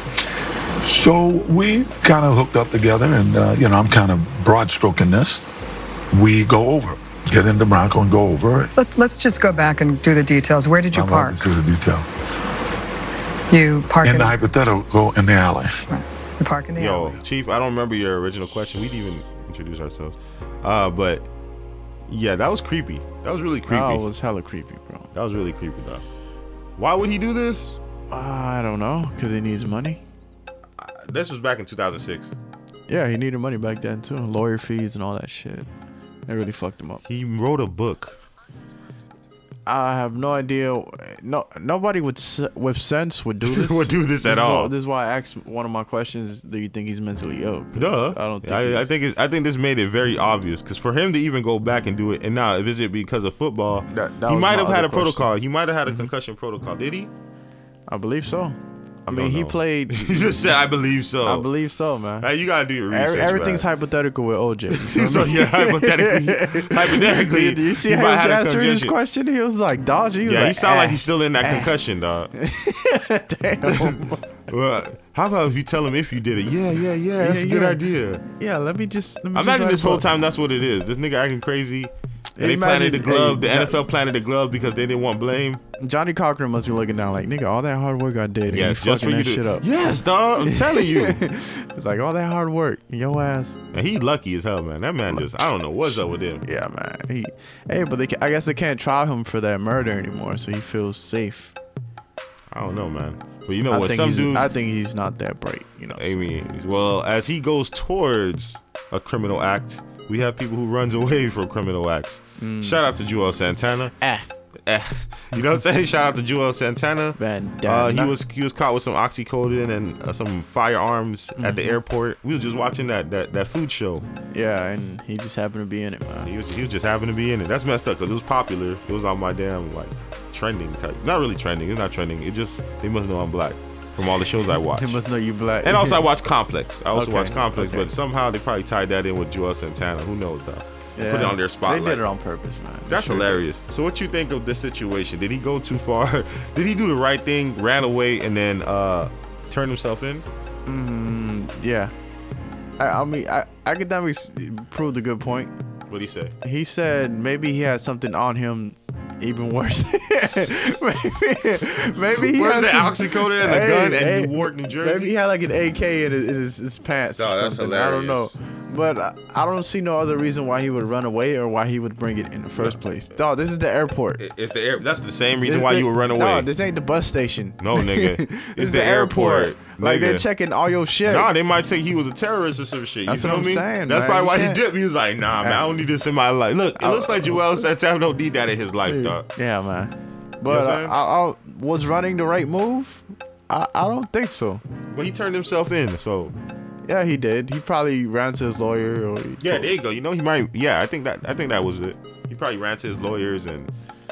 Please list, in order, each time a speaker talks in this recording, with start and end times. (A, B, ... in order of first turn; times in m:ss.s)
0:00.8-0:05.4 A
0:06.1-0:08.7 A
0:08.8-0:11.4 B
0:10.9-0:12.1 A
0:13.5-0:14.3 B
0:14.0-0:15.8 A
0:15.9-0:17.2 B
0:16.8-0:21.3 C
0:22.1-0:24.0 C
0:23.7-0:25.1 D
0:25.1-0:26.0 C
0:26.8-0:27.8 C
0:28.1-0:30.0 D
0:30.8-0:32.3 C
0:32.9-0:35.7 D
0:36.3-0:37.0 D
0:37.1-0:38.2 C
0:39.7-0:48.9 D
0:43.4-0:44.7 C
0:47.7-0:57.1 C
0:53.9-0:55.2 D
0:57.9-1:00.5 D
0:59.1-1:01.5 C
1:01.2-1:02.3 D
1:02.2-1:03.7 C
1:02.9-1:11.7 D
1:04.8-1:09.0 C
1:10.2-1:12.3 C
1:12.4-1:14.2 D
1:13.6-1:18.2 C
1:17.2-1:20.2 D
1:19.4-1:25.6 C
1:22.4-1:23.8 D
1:25.8-1:29.7 D
1:28.5-1:31.2 C
1:30.4-1:33.6 D
1:33.7-1:36.4 C
1:35.8-1:41.5 D
1:42.5-1:44.5 C
1:43.7-1:46.3 D
1:46.0-1:54.0 C
1:52.4-1:52.8 D
1:54.0-1:54.3 D
1:54.7-2:04.1 C
1:57.2-1:58.2 D
2:01.4-2:01.8 D
2:04.3-2:06.3 D
2:06.2-2:15.0 C
2:14.8-2:16.0 D
2:15.6-2:22.0 C
2:16.9-2:17.9 D
2:21.0-2:23.4 D
2:22.9-2:30.2 C
2:30.7-2:31.9 D
2:32.8-2:35.5 D
2:35.9-2:36.3 C
2:36.4-2:54.2 D
2:42.1-2:45.1 C
2:47.2-2:48.3 C
2:54.2-2:56.5 C
2:55.4-3:01.3 D
2:57.6-3:00.2 C
3:01.1-3:09.3 C
3:03.1-3:04.6 D
3:06.8-3:07.6 D
3:08.9-3:14.6 D
3:10.4-3:11.0 C
3:14.9-3:16.3 C
3:16.9-3:19.7 D
3:19.4-3:23.7 C